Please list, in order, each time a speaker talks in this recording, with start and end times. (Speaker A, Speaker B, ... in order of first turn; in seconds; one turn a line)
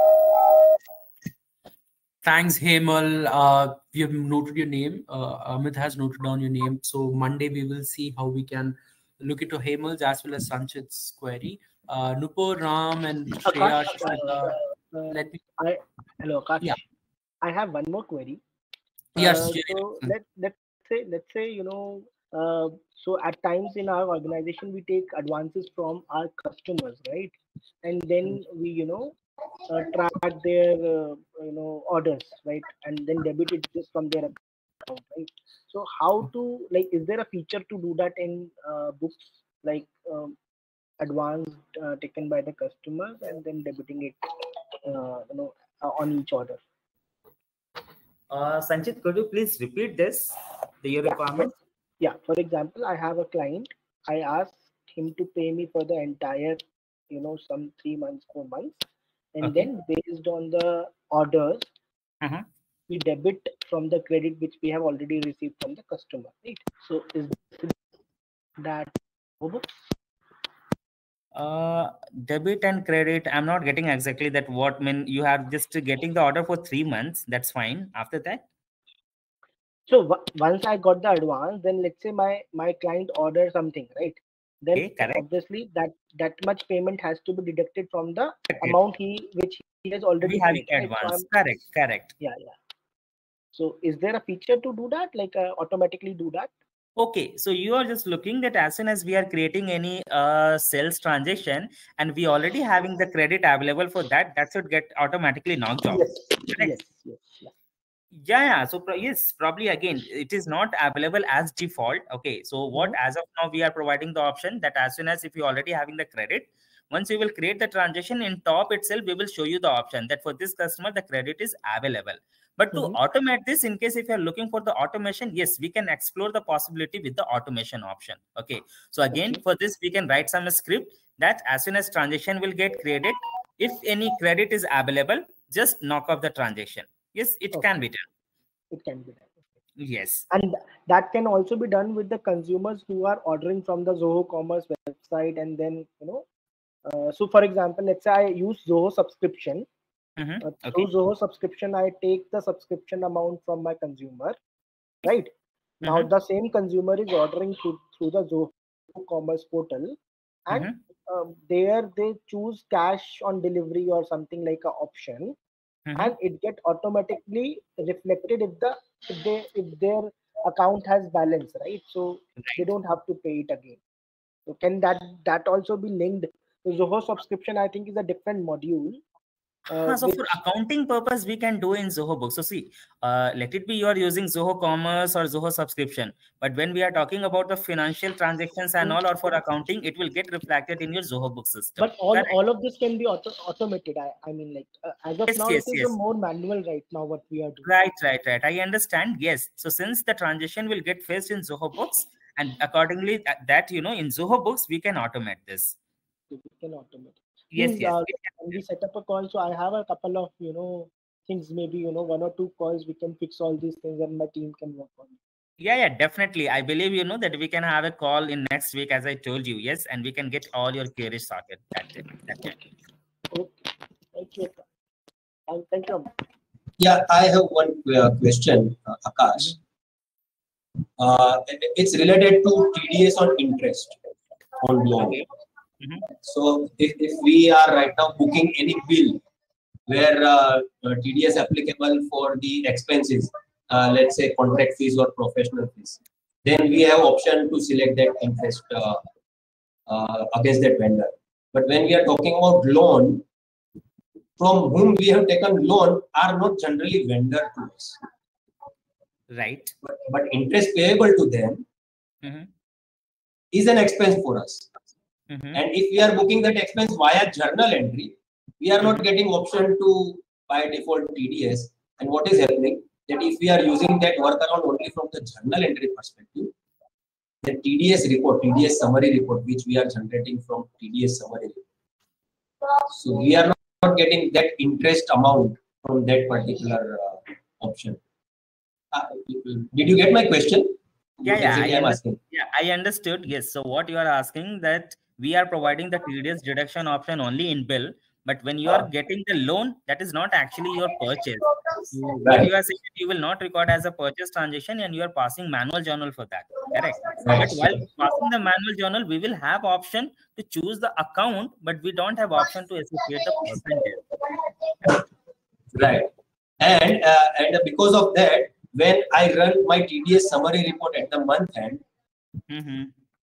Speaker A: 2.2-15.4
Speaker B: 13.4-16.8
Speaker B: 17.4-18.4
Speaker A: 19.1-20.1
Speaker B: 19.2-29.1
Speaker B: 29.7-40.4
Speaker B: 41.0-44.3
Speaker B: 44.8-46.6
Speaker C: 48.3-51.5
Speaker B: 51.3-58.8
Speaker B: 59.3-61.7
Speaker C: 59.4-59.7
Speaker C: 62.2-62.5
Speaker B: 62.9-67.7
Speaker B: 68.6-69.7
Speaker C: 71.3-78.4
Speaker B: 79.9-91.2
Speaker C: 84.7-85.2
Speaker C: 90.2-92.1
Speaker B: 92.2-92.5
Speaker B: 93.5-96.5
Speaker C: 97.0-106.7
Speaker B: 105.9-107.5
Speaker C: 108.2-138.1
Speaker B: 129.1-129.4
Speaker B: 138.7-139.3
Speaker C: 139.8-140.2
Speaker B: 140.3-146.2
Speaker B: 146.8-149.7
Speaker C: 150.2-150.9
Speaker B: 150.4-154.4
Speaker B: 155.0-155.3
Speaker C: 155.8-156.1
Speaker B: 155.8-165.3
Speaker C: 160.5-160.8
Speaker C: 165.8-166.1
Speaker B: 165.9-173.8
Speaker C: 172.4-172.7
Speaker B: 174.4-179.0
Speaker B: 179.7-180.4
Speaker C: 179.8-192.3
Speaker B: 191.8-197.7
Speaker C: 195.3-195.9
Speaker C: 197.6-205.8
Speaker B: 206.3-215.1
Speaker C: 207.5-208.2
Speaker C: 215.6-222.6
Speaker B: 223.3-224.6
Speaker B: 225.5-226.1
Speaker D: 226.8-229.6
Speaker D: 231.0-233.9
Speaker D: 234.6-235.2
Speaker C: 235.0-235.2
Speaker D: 236.2-239.2
Speaker D: 239.9-249.0
Speaker D: 249.9-253.2
Speaker D: 254.4-258.0
Speaker C: 259.3-259.7
Speaker D: 259.8-261.6
Speaker C: 262.2-262.5
Speaker D: 263.5-264.7
Speaker C: 265.3-265.6
Speaker D: 265.5-276.5
Speaker D: 277.4-281.6
Speaker D: 282.9-288.0
Speaker D: 288.9-292.2
Speaker C: 291.2-301.6
Speaker D: 302.2-302.5
Speaker C: 302.2-314.0
Speaker D: 307.1-307.9
Speaker D: 315.7-321.8
Speaker C: 322.5-322.9